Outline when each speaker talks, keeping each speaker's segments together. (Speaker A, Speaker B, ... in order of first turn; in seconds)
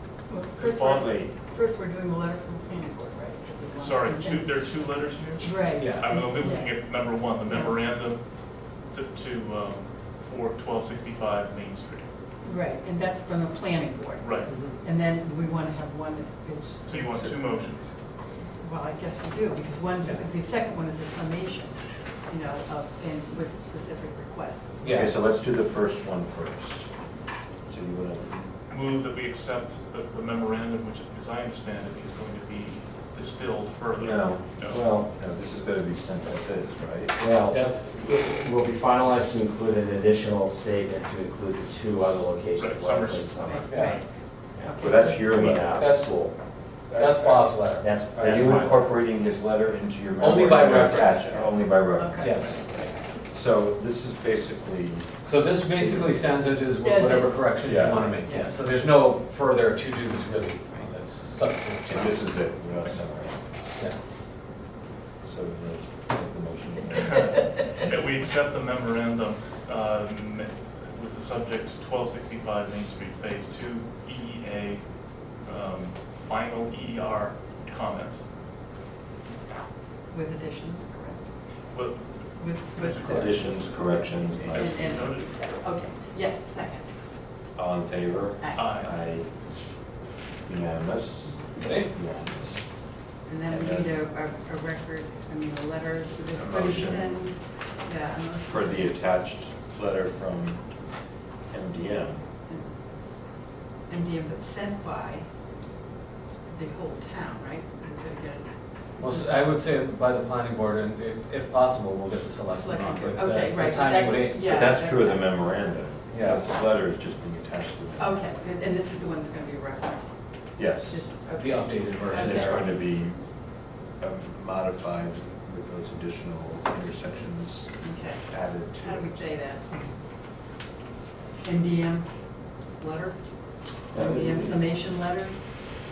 Speaker A: 0.3-4.8, 5.4-7.8, 12.4-17.3, 18.6-24.9, 43.4-44.1, 44.7-45.2, 51.9-53.2, 56.8-58.6, 80.1-81.2, 82.4-86.9, 88.4-88.8, 93.2-98.9, 103.9-105.2, 106.5-109.4, 112.5-115.6, 118.0-122.5, 127.8-129.9, 131.4-132.1, 132.8-133.2, 133.9-135.4
Speaker B: 0.6-1.2, 3.8-12.1, 14.2-14.5, 16.8-18.0, 28.7-34.8, 42.0-43.7, 66.9-78.2, 81.7-83.5, 84.4-85.3, 88.5-88.9
Speaker C: 1.0-1.3, 24.9-26.9, 27.7-28.5, 34.0-37.2, 44.8-46.1, 46.9-47.5, 48.2-52.7, 53.2-55.1, 55.8-56.1, 57.6-58.1, 61.9-63.4, 65.2-67.3, 83.0-85.1, 87.5-89.3, 90.4-92.7, 93.5-94.0, 96.3-97.2, 98.4-100.6, 101.5-102.2, 114.2-118.2, 120.6-121.1, 122.1-123.2, 124.0-127.7, 128.3-129.3
Speaker D: 5.8-6.1, 14.5-14.8, 24.8-25.1, 37.5-38.4, 43.7-44.0, 45.4-48.3, 50.2-51.5, 52.2-52.6, 55.2-62.3, 91.5-91.9, 109.0-114.5, 116.1-116.5, 121.3-122.7
Speaker E: 34.7-35.1, 37.2-43.9, 44.5-46.3, 47.8-48.9, 133.9-134.7